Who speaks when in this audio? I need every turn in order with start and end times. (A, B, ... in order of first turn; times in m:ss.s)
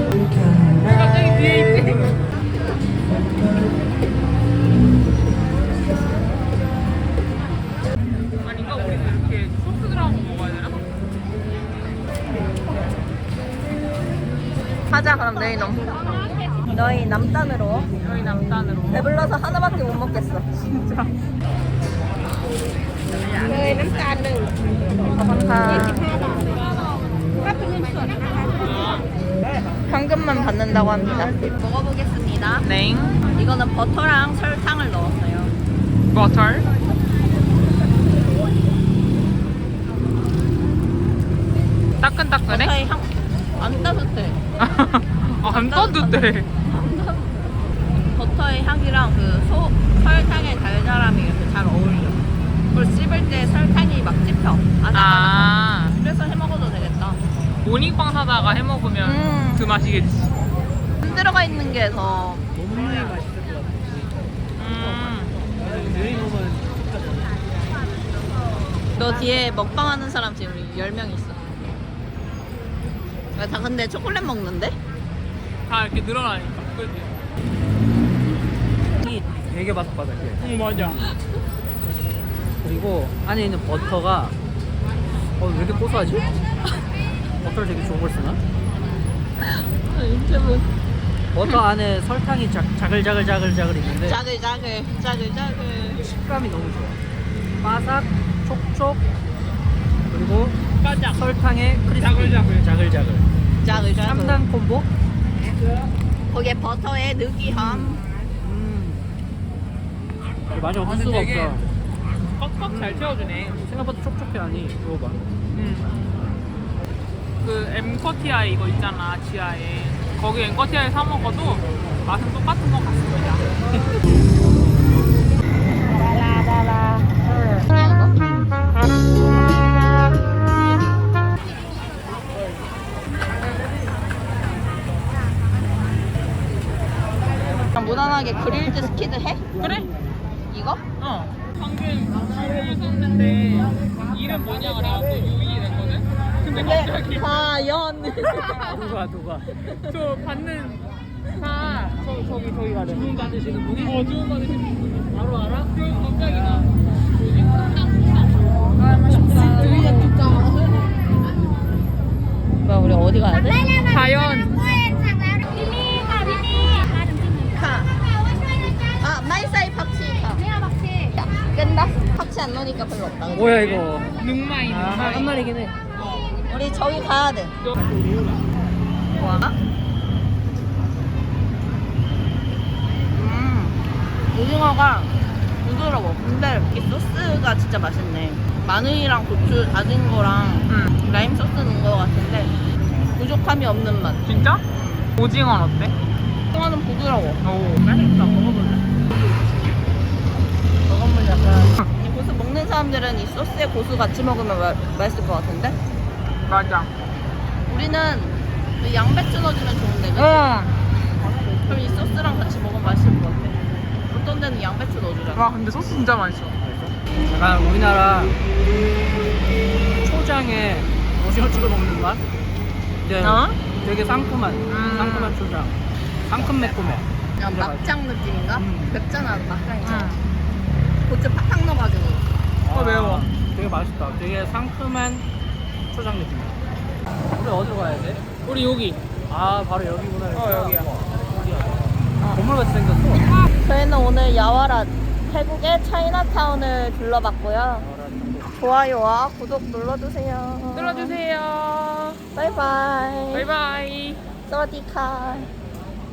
0:00.8-0:02.2 A
0:08.4-0:10.8 A
0:14.9-0:16.2 B
0:16.7-0:17.9 B
0:18.0-0:19.2 A
0:18.9-0:20.5 B
0:20.7-0:21.1 A
0:23.4-0:24.1 B
0:25.1-0:26.1 B
0:28.5-0:29.0 A
0:29.9-0:32.6 B
0:32.6-0:33.2 A
0:33.3-0:35.5 B
0:36.1-0:36.6 A
0:42.0-0:42.7 A
0:42.5-0:44.4 B
0:44.6-0:46.5 A
0:45.4-0:47.4 B
0:48.1-0:57.2 B
0:54.9-0:56.0 A
0:57.6-1:00.3 A
0:59.0-0:59.7 B
1:01.0-1:02.4 B
1:02.5-1:07.4 C
1:04.6-1:05.4 A
1:08.9-1:11.4 B
1:13.3-1:14.8 B
1:15.7-1:17.1 A
1:19.0-1:21.1 C
1:20.4-1:21.1 A
1:22.6-1:24.3 C
1:25.4-1:26.3 C
1:27.4-1:28.4 C
1:29.4-1:30.7 B
1:31.3-1:34.2 C
1:34.0-1:36.0 B
1:35.9-1:37.0 C
1:37.6-1:39.0 C
1:40.1-1:44.9 C
1:40.8-1:41.2 A
1:42.0-1:42.5 A
1:43.6-1:44.4 B
1:46.3-1:48.0 B
1:47.4-1:49.0 C
1:50.5-1:51.6 C
1:50.8-1:51.6 A
1:52.3-1:53.6 A
1:52.7-1:55.2 C
1:55.5-1:56.0 A
1:57.4-2:03.4 A
2:07.7-2:08.1 B
2:08.2-2:08.5 C
2:17.7-2:19.4 B
2:19.6-2:19.9 A
2:20.5-2:20.8 B
2:21.0-2:27.3 A
2:26.5-2:28.8 B
2:28.6-2:29.5 C
2:29.5-2:29.9 B
2:29.9-2:35.1 A
2:32.6-2:34.1 C
2:35.1-2:35.7 C
2:35.7-2:40.1 A
2:38.8-2:40.1 B
2:42.6-2:43.7 B
2:43.7-2:44.7 A
2:47.5-2:47.9 B
2:49.0-2:50.5 B
2:51.1-2:53.7 B
2:53.3-2:54.1 C
2:53.6-2:55.4 A
2:54.6-2:55.8 C
2:56.5-2:57.5 B
2:57.6-2:58.0 A
2:59.1-2:59.6 B
3:03.1-3:03.8 B
3:04.3-3:12.6 B
3:10.7-3:11.0 A
3:13.1-3:15.1 B
3:14.2-3:14.6 A
3:15.2-3:15.9 A
3:16.5-3:17.4 B
3:17.4-3:18.8 A
3:20.8-3:21.7 C
3:22.0-3:25.8 B
3:26.4-3:26.9 A
3:27.7-3:30.5 B
3:30.1-3:30.8 A
3:31.6-3:33.6 B
3:34.1-3:35.5 B
3:35.4-3:36.6 A
3:36.6-3:38.4 C
3:40.0-3:42.2 C
3:43.0-3:47.8 C
3:44.7-3:45.4 A
3:47.4-3:50.2 B
3:48.5-3:49.0 C
3:49.8-3:50.2 A
3:51.0-3:52.2 B
3:52.6-3:55.2 C
3:52.7-3:53.3 A
3:55.9-3:56.6 C
3:57.3-3:58.2 C
3:58.4-3:59.0 A
3:59.3-4:03.3 C
4:00.3-4:00.9 A
4:02.2-4:02.4 B
4:03.6-4:07.9 B
4:07.8-4:08.6 C
4:08.4-4:11.2 B
4:10.7-4:12.2 A
4:12.3-4:13.5 B
4:13.3-4:14.2 A
4:14.5-4:15.5 B